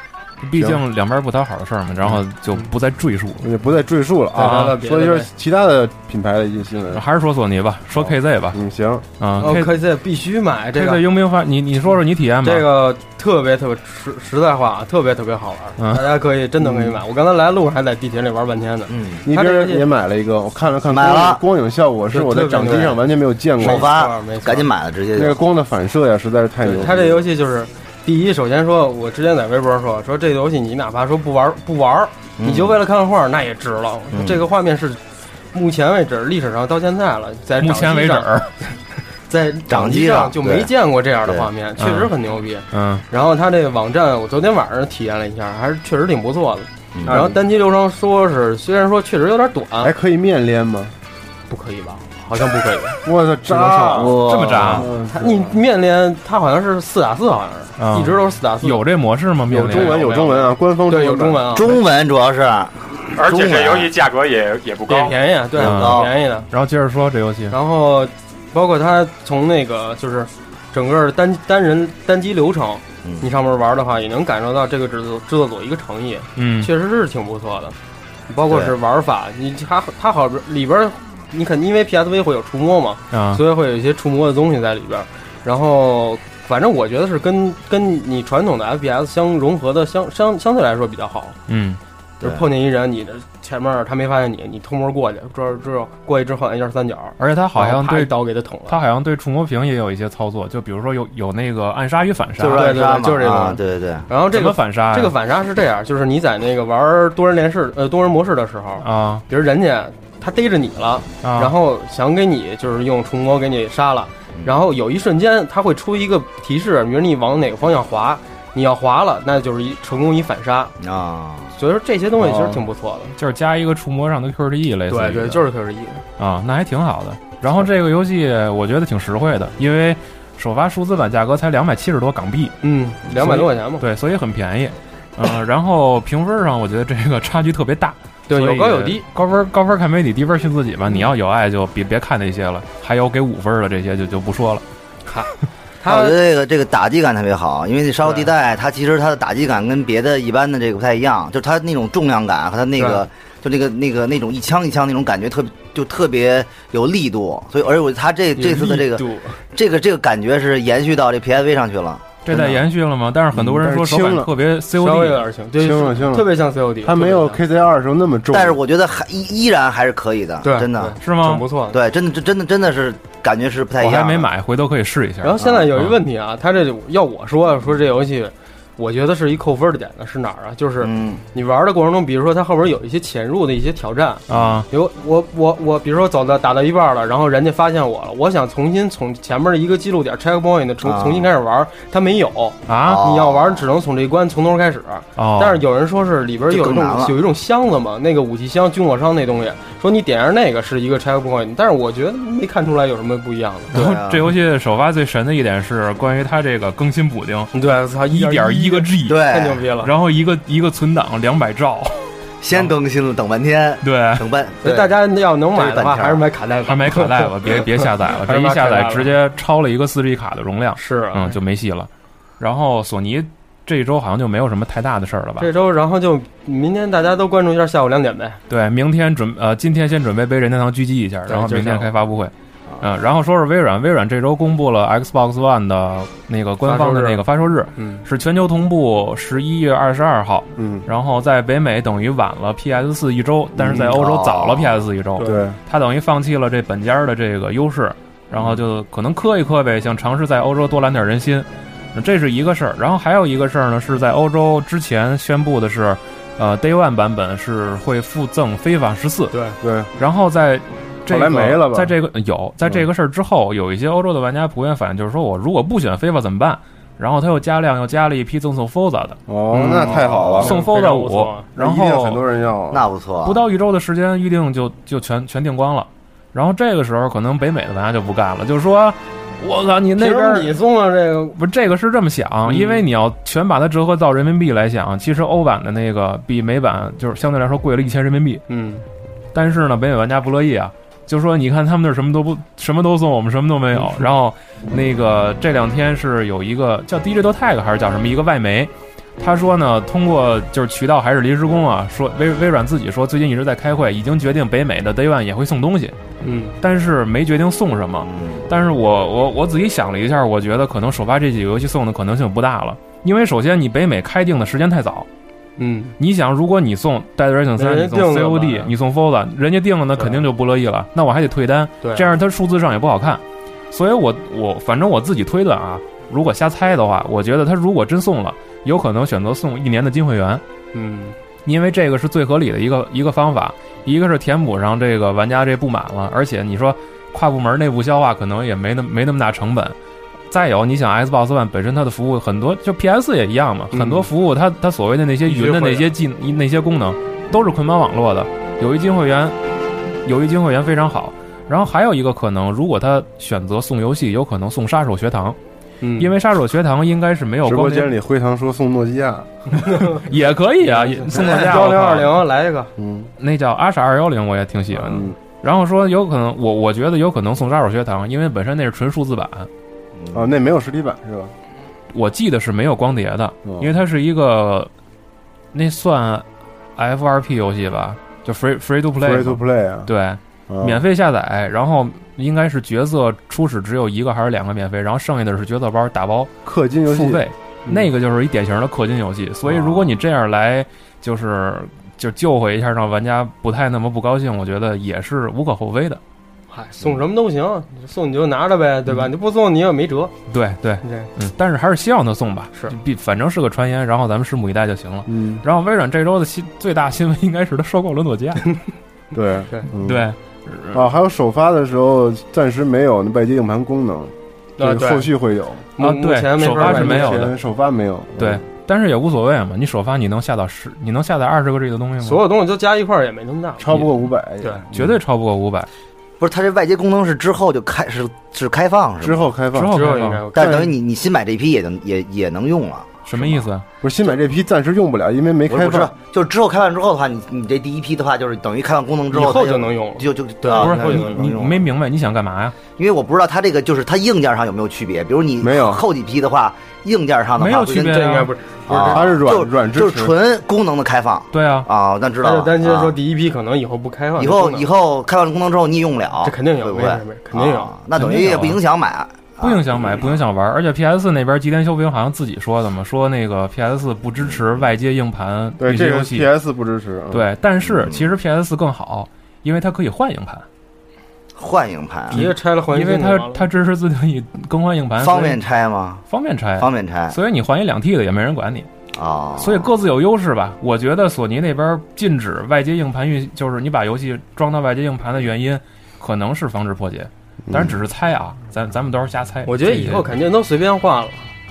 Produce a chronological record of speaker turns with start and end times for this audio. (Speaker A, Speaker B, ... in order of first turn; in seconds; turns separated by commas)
Speaker A: 0.4-3.4, Speaker B: 0.6-0.8, Speaker B: 3.4-7.0, Speaker C: 4.3-5.3, Speaker A: 4.4-4.7, Speaker A: 6.9-8.6, Speaker B: 7.9-9.1, Speaker A: 9.2-9.8, Speaker C: 9.4-11.1, Speaker A: 10.7-12.7, Speaker C: 12.4-19.9, Speaker A: 15.8-16.1, Speaker B: 16.6-17.0, Speaker D: 18.9-19.2, Speaker B: 19.2-23.9, Speaker D: 20.9-21.4, Speaker C: 22.1-23.0, Speaker C: 23.6-24.7, Speaker D: 23.6-25.4, Speaker B: 25.1-27.2, Speaker C: 26.6-35.0, Speaker D: 32.4-32.8, Speaker D: 34.1-34.4, Speaker C: 35.5-49.9, Speaker A: 37.6-38.5, Speaker D: 39.7-40.7, Speaker A: 41.8-42.1, Speaker A: 42.7-43.0, Speaker D: 46.9-47.2, Speaker B: 47.0-47.4, Speaker B: 49.8-50.9, Speaker C: 51.5-53.0, Speaker B: 53.0-55.5, Speaker D: 53.5-54.9, Speaker A: 54.2-54.9, Speaker C: 55.0-58.8, Speaker A: 57.8-60.0, Speaker B: 59.5-61.6, Speaker C: 59.7-61.8, Speaker D: 61.5-63.9, Speaker E: 63.1-65.2, Speaker C: 64.9-66.5, Speaker D: 65.5-66.1, Speaker A: 65.6-67.5, Speaker C: 67.5-77.8, Speaker D: 73.0-73.3, Speaker A: 76.3-76.7, Speaker C: 78.3-91.3, Speaker D: 78.5-78.7, Speaker A: 83.1-83.4, Speaker A: 91.5-91.8, Speaker C: 92.2-98.8, Speaker A: 97.2-102.8, Speaker D: 102.4-104.0, Speaker C: 102.5-120.7, Speaker A: 104.3-105.1, Speaker A: 108.8-109.2, Speaker A: 111.2-111.5, Speaker D: 120.8-121.5, Speaker C: 121.5-123.1, Speaker B: 122.2-122.6, Speaker A: 123.2-125.4, Speaker C: 124.9-126.0, Speaker A: 126.2-132.6, Speaker C: 132.6-133.8, Speaker A: 133.1-144.6, Speaker C: 138.3-139.1, Speaker C: 145.1-146.2, Speaker D: 145.8-162.5, Speaker C: 148.0-148.3, Speaker C: 152.8-153.0, Speaker C: 158.3-159.4, Speaker A: 162.2-165.2, Speaker B: 163.3-164.3, Speaker C: 164.8-167.4, Speaker B: 165.6-168.6, Speaker D: 168.3-171.0, Speaker C: 170.4-171.8, Speaker A: 171.0-171.4, Speaker D: 171.7-174.3, Speaker A: 173.8-175.9, Speaker C: 175.2-203.7, Speaker D: 175.4-175.7, Speaker D: 180.8-181.2, Speaker A: 184.3-184.7, Speaker D: 184.3-184.6, Speaker D: 190.8-191.3, Speaker A: 192.7-193.1, Speaker D: 192.8-193.7, Speaker A: 195.2-195.6, Speaker D: 196.5-197.2, Speaker A: 203.7-207.5, Speaker D: 203.7-204.3, Speaker C: 207.5-209.9, Speaker A: 208.1-209.2, Speaker D: 209.1-209.6, Speaker A: 209.8-212.0, Speaker D: 212.4-215.0, Speaker A: 213.8-214.2, Speaker C: 214.6-219.1, Speaker D: 215.5-216.2, Speaker A: 216.7-221.9, Speaker C: 220.8-221.4, Speaker A: 222.4-225.5, Speaker C: 225.4-228.4, Speaker A: 228.5-259.3, Speaker C: 231.3-231.9, Speaker C: 236.6-237.2, Speaker C: 237.7-238.0, Speaker B: 240.6-240.8, Speaker D: 243.7-244.9, Speaker B: 245.2-245.6, Speaker C: 259.3-259.6, Speaker B: 259.6-259.9, Speaker A: 260.0-269.2, Speaker B: 261.1-261.9, Speaker B: 269.3-270.6, Speaker C: 269.5-271.5, Speaker A: 270.3-272.2, Speaker B: 271.6-272.9, Speaker D: 272.7-273.4, Speaker A: 273.2-280.6, Speaker C: 280.0-281.4, Speaker A: 281.4-288.4, Speaker C: 282.4-282.9, Speaker C: 288.5-288.8, Speaker A: 289.3-305.9, Speaker C: 293.8-294.0, Speaker C: 306.2-306.6, Speaker A: 306.6-315.1, Speaker D: 308.0-308.4, Speaker C: 315.6-315.9, Speaker A: 316.0-330.4, Speaker C: 317.6-318.7, Speaker C: 319.9-320.2, Speaker C: 321.8-322.1, Speaker C: 330.7-331.1, Speaker A: 331.4-339.7, Speaker A: 340.3-349.4, Speaker C: 343.7-344.1, Speaker C: 345.3-345.9, Speaker A: 350.0-355.4, Speaker C: 355.8-356.1, Speaker A: 356.0-357.9, Speaker B: 357.4-359.5, Speaker C: 359.6-360.0, Speaker A: 359.8-362.2, Speaker C: 360.6-362.7, Speaker B: 362.8-363.1, Speaker A: 363.2-369.5, Speaker B: 364.8-365.1, Speaker D: 369.9-370.3, Speaker B: 370.1-371.3, Speaker A: 371.9-374.7, Speaker B: 373.4-373.7, Speaker A: 375.5-376.2, Speaker A: 376.8-386.3, Speaker B: 379.0-379.9, Speaker B: 380.5-380.8, Speaker B: 386.4-387.8, Speaker A: 386.9-396.0, Speaker B: 389.5-389.8, Speaker C: 396.5-400.1, Speaker A: 400.3-408.6, Speaker C: 400.8-401.1, Speaker B: 405.1-405.4, Speaker B: 409.1-410.1, Speaker A: 409.8-410.9, Speaker B: 410.7-415.7, Speaker C: 414.6-415.1, Speaker C: 415.8-417.3, Speaker A: 415.8-417.3, Speaker B: 416.6-418.4, Speaker A: 418.2-422.2, Speaker C: 422.0-423.9, Speaker B: 423.6-425.0, Speaker A: 424.7-425.7, Speaker D: 426.2-429.3, Speaker B: 429.0-429.8, Speaker A: 429.5-430.2, Speaker C: 429.7-430.6, Speaker B: 430.3-430.7, Speaker D: 430.3-433.4, Speaker A: 433.1-433.6, Speaker B: 433.8-435.9, Speaker D: 435.5-441.7, Speaker C: 439.1-441.2, Speaker A: 440.6-442.6, Speaker D: 442.8-448.1, Speaker B: 445.4-445.8, Speaker A: 447.4-448.3, Speaker C: 447.9-449.1, Speaker D: 448.7-452.9, Speaker B: 448.9-450.1, Speaker A: 451.3-451.7, Speaker C: 452.2-454.6, Speaker D: 454.2-460.2, Speaker C: 456.2-457.7, Speaker A: 457.9-458.6, Speaker A: 459.4-466.3, Speaker B: 465.6-467.2, Speaker A: 467.1-470.4, Speaker D: 467.6-468.1, Speaker D: 471.4-472.3, Speaker C: 472.1-473.4, Speaker A: 472.1-475.4, Speaker D: 475.0-476.0, Speaker A: 476.1-478.7, Speaker D: 476.6-477.1, Speaker D: 478.9-479.7, Speaker A: 479.4-490.1, Speaker B: 487.5-487.8, Speaker C: 489.4-491.3